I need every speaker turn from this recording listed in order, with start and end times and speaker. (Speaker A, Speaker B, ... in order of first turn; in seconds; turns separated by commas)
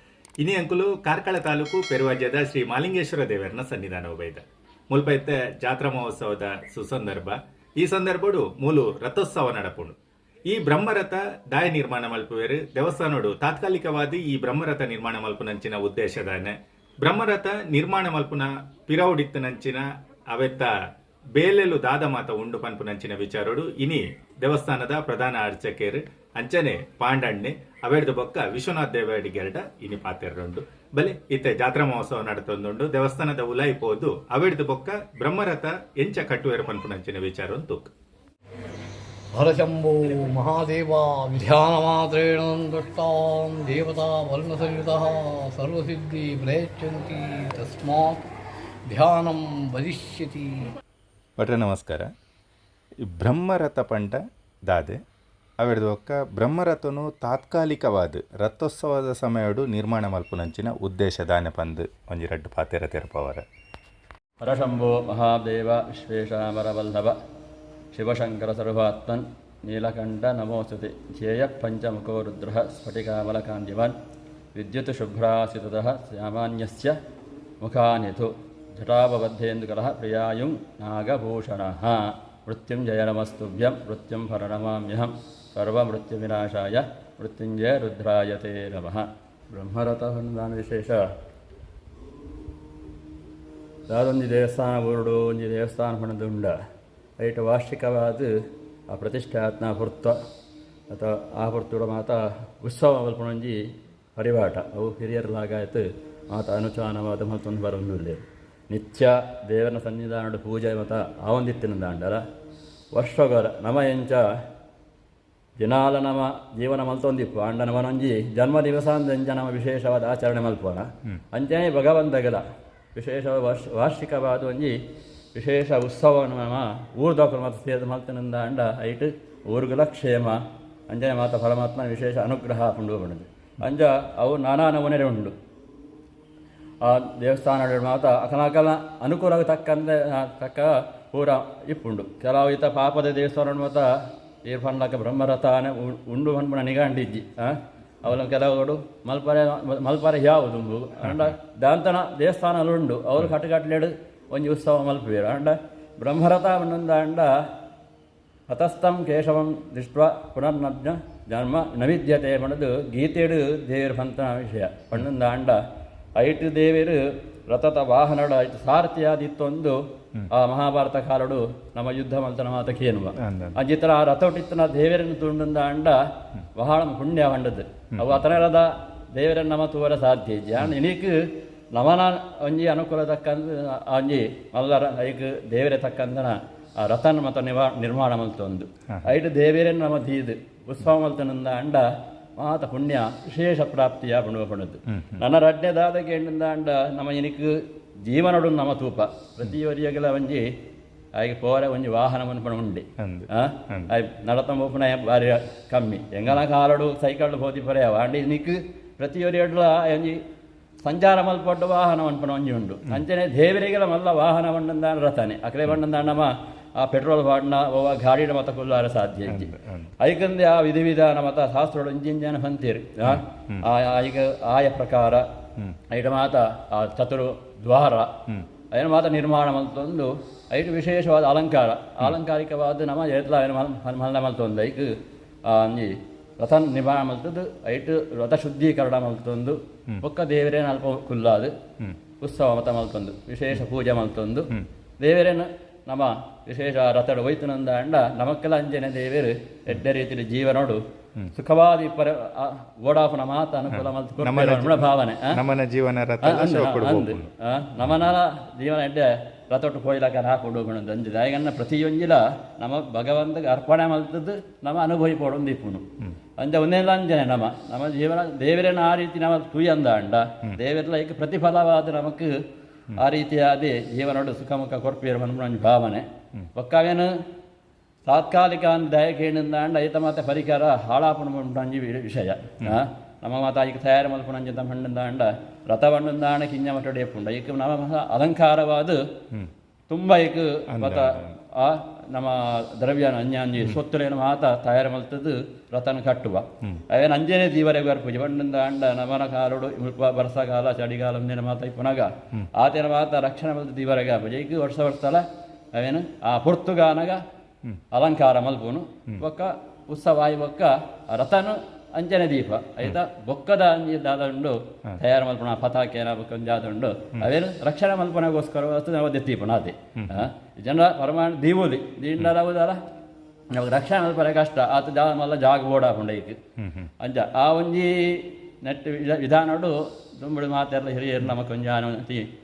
Speaker A: 0.4-9.9, Speaker A: 10.5-20.7, Speaker A: 21.3-37.9, Speaker B: 39.3-48.3, Speaker B: 48.9-50.7, Speaker A: 51.4-52.1, Speaker A: 53.1-55.0, Speaker A: 55.6-63.4, Speaker C: 64.4-67.2, Speaker C: 67.9-73.9, Speaker C: 74.5-77.0, Speaker C: 77.6-91.0, Speaker C: 93.9-96.6, Speaker C: 97.2-98.3, Speaker C: 98.9-100.2, Speaker C: 100.9-103.6, Speaker C: 104.1-112.2, Speaker C: 112.9-114.2, Speaker C: 115.6-122.4, Speaker C: 122.9-124.8, Speaker C: 125.3-130.4, Speaker C: 130.9-135.3, Speaker C: 136.8-143.9, Speaker C: 144.5-157.3, Speaker A: 151.1-151.3, Speaker C: 158.5-165.6, Speaker C: 166.2-169.8, Speaker C: 170.3-176.0, Speaker A: 173.2-173.6, Speaker C: 176.6-181.2, Speaker C: 181.7-200.5, Speaker A: 194.9-195.2, Speaker C: 201.2-210.2, Speaker A: 203.0-203.9, Speaker C: 210.8-225.3, Speaker A: 219.3-219.9, Speaker A: 223.0-223.7, Speaker C: 225.9-228.1, Speaker C: 228.7-234.9, Speaker C: 235.5-241.5, Speaker C: 242.2-244.5, Speaker C: 245.0-250.8, Speaker C: 251.3-255.3, Speaker A: 253.7-257.3, Speaker C: 256.2-265.8, Speaker C: 266.4-272.3, Speaker C: 272.9-277.1, Speaker C: 278.0-289.0, Speaker C: 289.9-307.2, Speaker A: 290.7-291.3, Speaker C: 307.9-322.8, Speaker A: 320.0-320.2, Speaker C: 323.5-326.4, Speaker A: 326.6-326.9, Speaker C: 327.0-332.2